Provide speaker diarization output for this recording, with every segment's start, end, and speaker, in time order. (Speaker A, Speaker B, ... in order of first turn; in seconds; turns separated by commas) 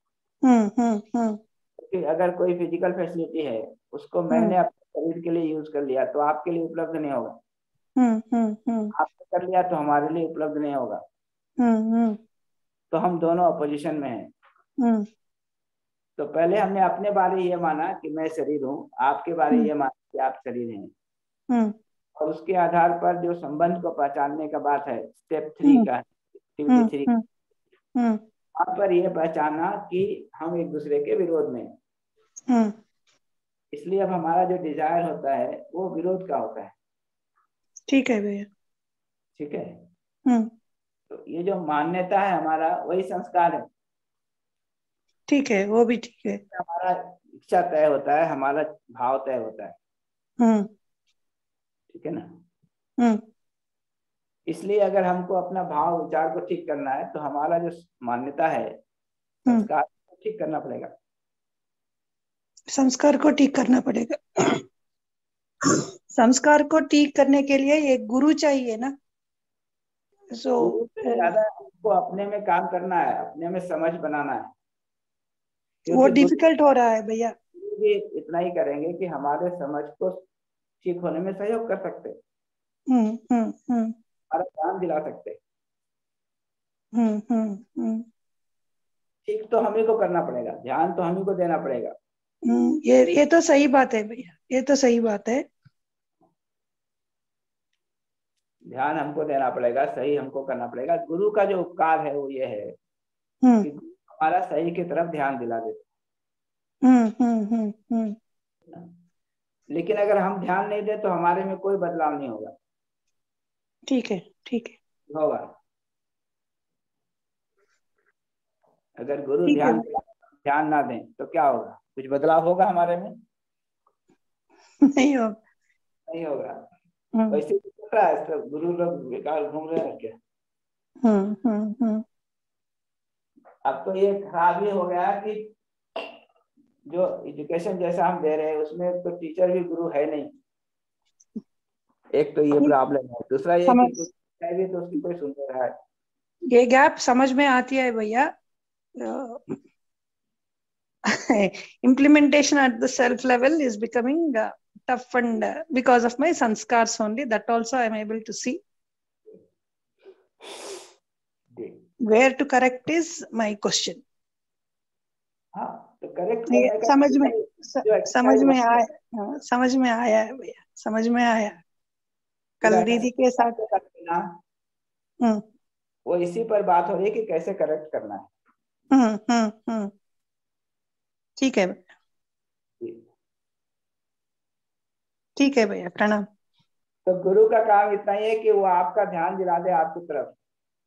Speaker A: 0.4-1.4, Speaker B: 1.8-7.4, Speaker A: 8.0-8.9, Speaker B: 8.9-11.0, Speaker A: 11.6-12.2, Speaker B: 12.9-14.3, Speaker A: 14.8-15.1, Speaker B: 16.2-20.9, Speaker A: 21.5-21.8, Speaker B: 22.2-27.1, Speaker A: 26.7-27.2, Speaker A: 27.9-28.2, Speaker B: 28.6-31.7, Speaker A: 32.5-32.8, Speaker B: 33.7-36.7, Speaker A: 37.9-38.5, Speaker B: 39.4-39.8, Speaker A: 40.2-40.5, Speaker B: 41.1-43.7, Speaker A: 45.3-46.4, Speaker B: 46.5-49.7, Speaker A: 50.4-50.7, Speaker B: 51.9-52.4, Speaker A: 53.0-53.2, Speaker B: 54.5-58.8, Speaker B: 59.5-60.9, Speaker A: 62.7-64.6, Speaker A: 65.6-68.9, Speaker A: 70.3-71.3, Speaker B: 70.6-74.5, Speaker B: 75.8-76.4, Speaker A: 75.9-77.3, Speaker B: 77.5-80.2, Speaker B: 80.8-82.2, Speaker A: 82.9-84.0, Speaker B: 84.3-85.4, Speaker A: 86.9-88.0, Speaker B: 89.2-92.0, Speaker A: 92.5-95.5, Speaker B: 98.7-102.8, Speaker B: 103.6-105.9, Speaker A: 106.8-108.2, Speaker B: 109.7-112.5, Speaker A: 113.9-114.8, Speaker B: 115.1-115.5, Speaker B: 119.0-123.2, Speaker A: 119.5-119.8, Speaker A: 124.8-125.4, Speaker B: 126.1-126.7, Speaker B: 127.3-130.2, Speaker A: 131.0-132.0, Speaker B: 133.6-135.5, Speaker B: 136.9-140.3, Speaker B: 142.1-145.7, Speaker A: 143.7-144.0, Speaker A: 146.5-148.3, Speaker A: 149.0-149.6, Speaker A: 151.1-158.6, Speaker B: 161.6-161.8, Speaker A: 162.0-164.0, Speaker B: 165.5-168.9, Speaker A: 166.5-171.6, Speaker A: 172.6-173.6, Speaker B: 172.6-174.4, Speaker B: 176.1-178.3, Speaker A: 178.9-179.9, Speaker A: 181.4-181.9, Speaker A: 185.4-186.3, Speaker B: 187.1-190.4